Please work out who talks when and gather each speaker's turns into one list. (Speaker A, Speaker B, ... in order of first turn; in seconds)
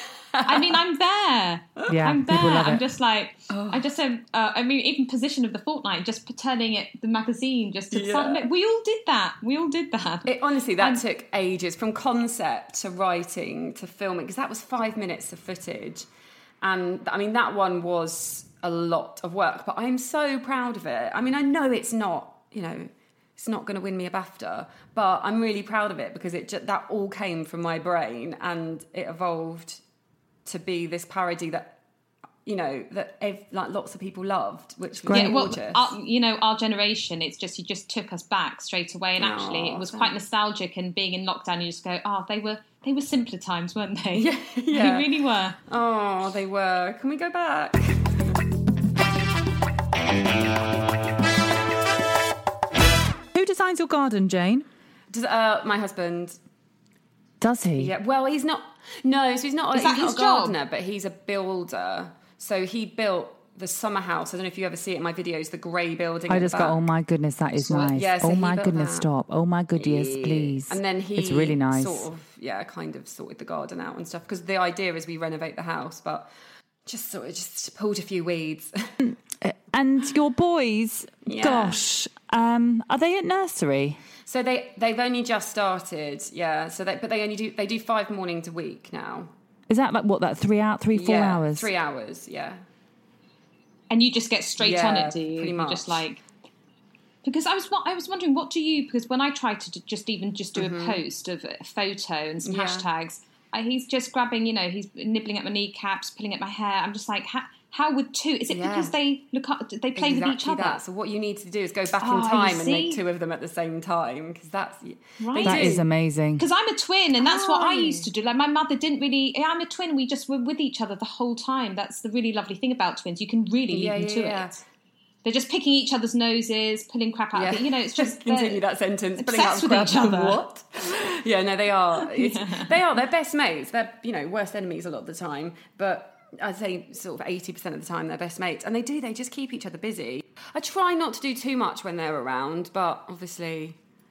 Speaker A: 0.3-0.8, 3.5-3.8, 7.9-8.5, 10.3-16.1, 16.6-29.8, 30.5-31.8, 32.5-35.9, 39.2-40.1, 44.1-45.1, 45.7-48.2, 55.1-56.4, 57.8-66.9, 67.6-69.1, 69.8-76.3, 76.9-79.0, 81.2-81.8, 84.2-89.3, 90.9-92.6, 94.6-96.1, 100.6-101.0, 102.5-102.9, 108.5-109.0, 110.0-115.8, 117.2-118.1, 123.7-124.6, 127.3-143.8
Speaker B: 0.5-11.0, 35.1-45.6, 59.7-60.6, 93.9-96.2, 97.2-110.8, 112.0-113.0, 115.2-115.8, 116.4-124.5, 125.2-128.6, 129.2-130.4, 132.0-132.8
Speaker C: 1.9-2.8, 35.0-35.5, 53.3-54.7, 57.4-57.9, 66.3-72.1, 79.0-84.0, 89.7-91.7, 115.4-116.5